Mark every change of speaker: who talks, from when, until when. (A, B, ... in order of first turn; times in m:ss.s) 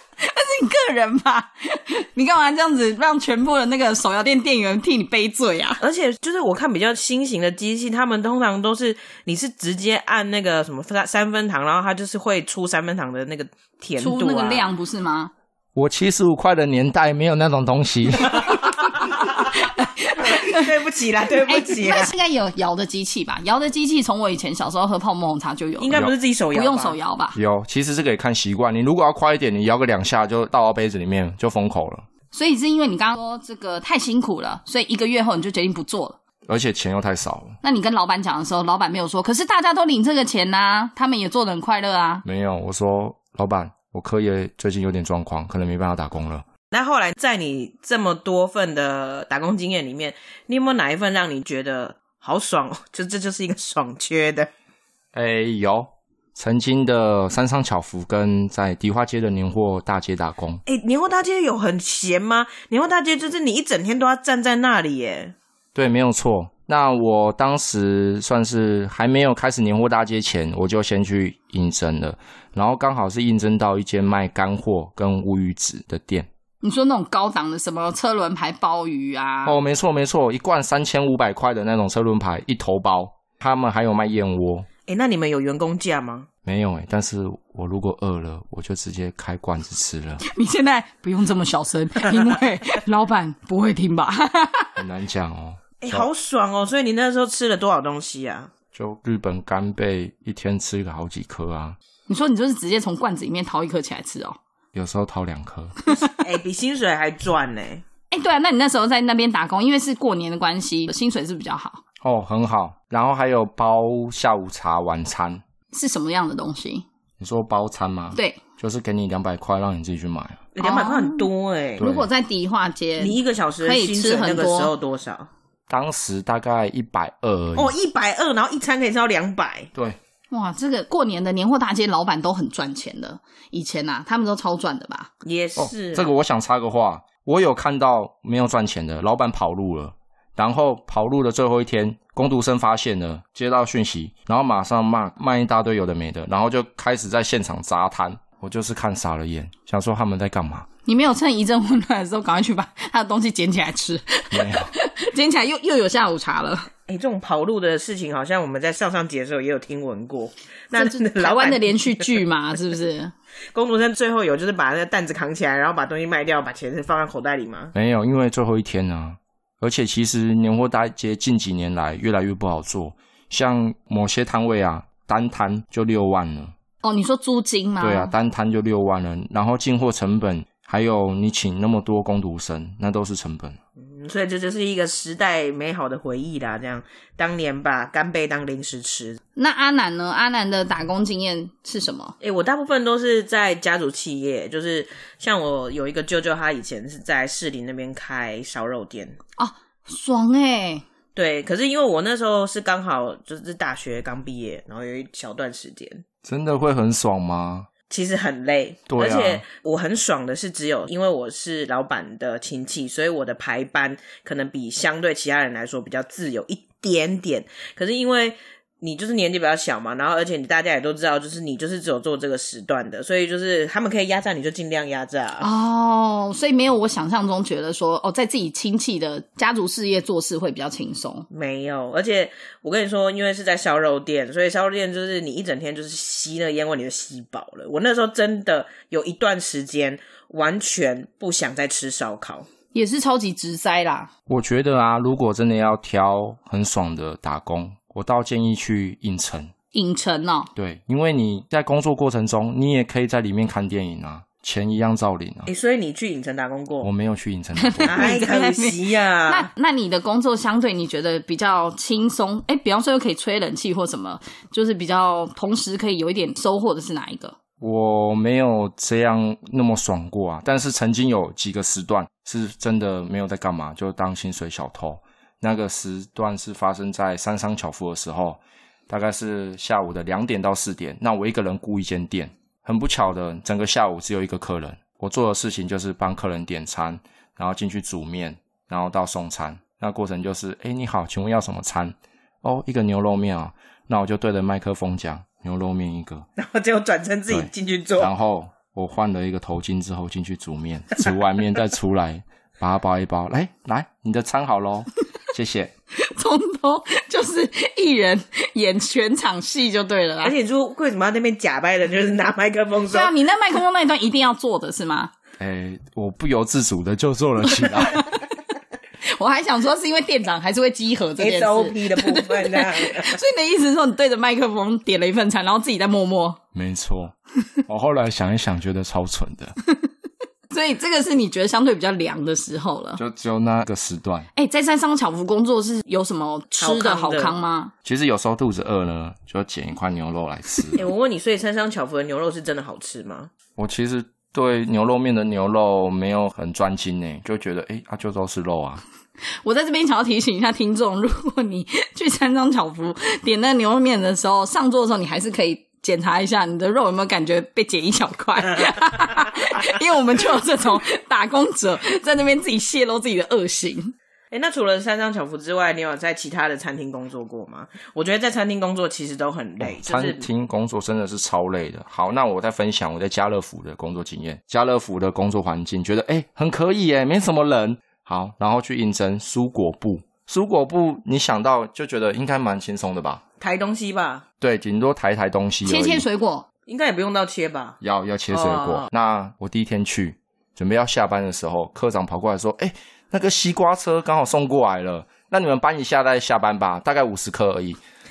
0:00.2-0:05.8 A
0:05.8-0:14.6 B
0:14.0-0:15.3 A
0:15.7-0:18.6 C
0:19.2-0:20.7 A
0:20.2-0:22.1 B
0:21.4-0:27.4 A
0:25.8-0:27.0 B
0:27.3-0:32.0 C
0:32.3-0:36.2 A
0:36.5-0:37.6 C
0:37.6-0:42.2 A
0:42.2-0:46.4 C
0:46.7-0:54.5 B
0:55.1-1:00.6 C
1:00.6-1:05.3 B
1:05.7-1:16.3 C
1:16.6-1:19.6 A
1:19.4-1:24.7 C
1:24.9-1:26.3 B
1:26.4-1:30.2 C
1:30.2-1:34.8 A
1:34.8-1:36.1 C
1:35.8-1:38.5 B
1:38.7-1:41.8 C
1:42.1-1:44.4 A
1:44.7-1:45.7 C
1:45.9-1:47.8 B
1:48.1-1:51.8 A
1:52.0-1:55.4 C
1:55.7-1:56.8 A
1:57.2-2:00.4 C
1:58.1-1:58.4 A
2:00.5-2:01.9 B
2:00.6-2:04.7 A
2:01.8-2:02.1 C
2:03.0-2:05.3 B
2:05.7-2:07.7 C
2:07.6-2:09.7 B
2:10.3-2:15.1 A
2:15.2-2:16.1 B
2:15.6-2:30.7 C
2:30.8-2:36.7 A
2:34.3-2:34.7 C
2:36.9-2:42.2 B
2:40.7-2:43.1 A
2:43.5-2:47.7 B
2:47.7-2:56.5 C
2:56.8-2:58.1 A
2:57.8-3:03.6 C
3:03.8-3:09.2 B
3:09.4-3:12.1 A
3:12.2-3:19.2 B
3:19.4-3:20.8 A
3:21.1-3:26.0 B
3:26.2-3:27.7 C
3:27.9-3:45.5 B
3:28.9-3:29.4 C
3:45.4-3:51.3 A
3:51.3-4:02.5 B
4:02.7-4:04.1 A
4:04.3-4:09.5 C
4:09.7-4:10.5 A
4:10.6-4:15.5 C
4:15.5-4:16.9 B
4:16.8-4:18.1 C
4:17.6-4:27.4 A
4:17.8-4:19.5 B
4:27.6-4:56.3 C
4:56.4-4:58.1 B
4:57.3-5:05.7 C
5:05.9-5:10.3 A
5:10.2-5:13.1 B
5:12.9-5:15.1 A
5:15.4-5:18.2 C
5:19.0-5:26.4 A
5:21.2-5:23.2 B
5:26.5-5:27.1 C
5:27.7-5:29.5 C
5:30.5-5:33.0 A
5:33.0-5:34.3 C
5:34.3-5:37.7 A
5:36.6-5:37.4 B
5:37.8-5:40.8 C
5:40.7-5:43.3 B
5:43.6-5:48.8 C
5:49.4-6:03.9 A
6:04.3-6:10.2 B
6:09.6-6:23.2 C
6:23.4-6:24.2 B
6:24.4-6:26.0 C
6:25.6-6:26.4 A
6:26.7-6:27.8 B
6:27.8-6:37.8 C
6:28.3-6:28.9 B